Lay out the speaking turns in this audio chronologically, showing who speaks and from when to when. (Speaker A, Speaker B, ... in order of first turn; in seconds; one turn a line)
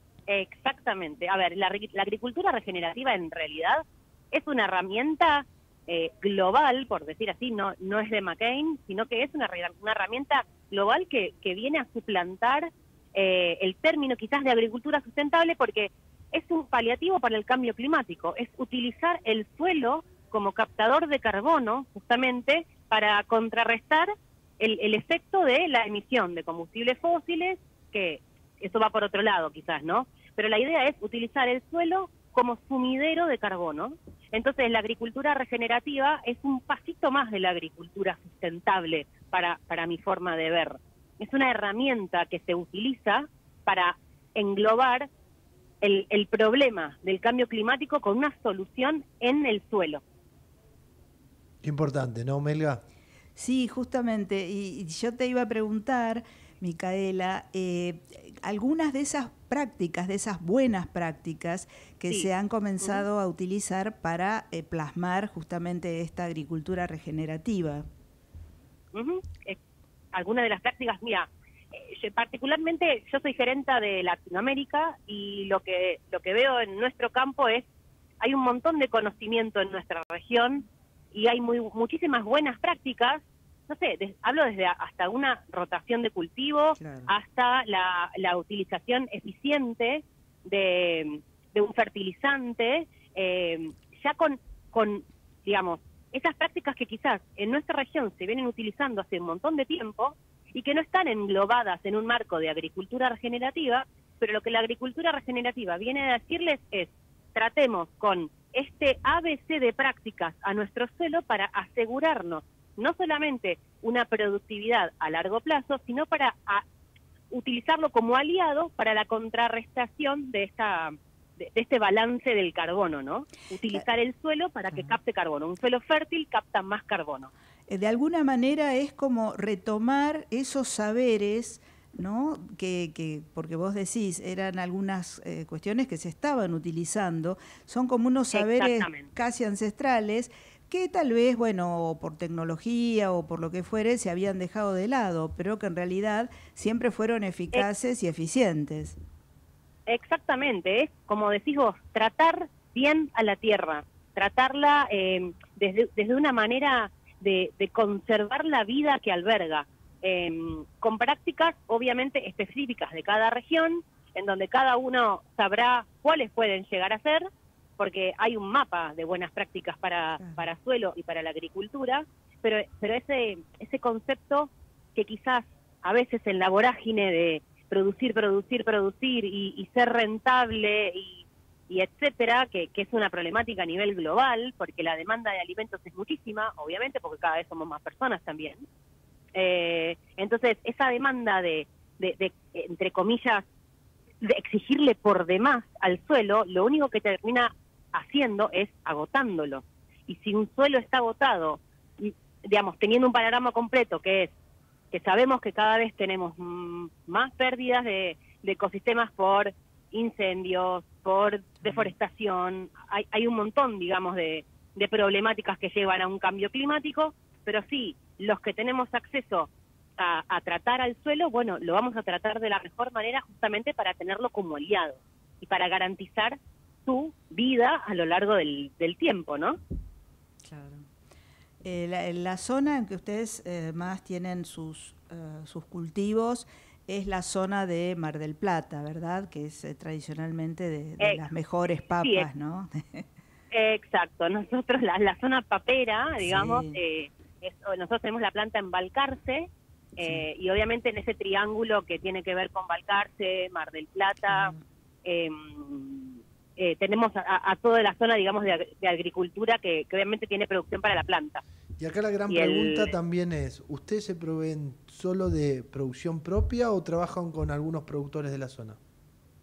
Speaker A: 0.3-45.1
Speaker A: 45.8-50.0
Speaker B: 51.6-52.8
Speaker C: 53.4-67.9
Speaker A: 62.1-63.1
Speaker A: 68.9-69.6
Speaker A: 70.1-77.7
Speaker A: 78.2-116.6
Speaker C: 86.8-87.1
Speaker A: 117.3-127.3
Speaker C: 124.7-125.0
Speaker C: 127.7-149.0
Speaker A: 138.3-139.1
Speaker A: 149.9-167.3
Speaker A: 167.8-188.7
Speaker C: 170.2-170.4
Speaker A: 189.3-193.4
Speaker A: 194.2-204.3
Speaker A: 204.9-229.6
Speaker C: 230.4-230.9
Speaker C: 231.6-243.1
Speaker A: 242.0-242.3
Speaker A: 243.5-254.5
Speaker C: 246.2-246.8
Speaker C: 254.2-254.6
Speaker A: 255.1-261.4
Speaker B: 261.8-268.8
Speaker A: 262.3-262.9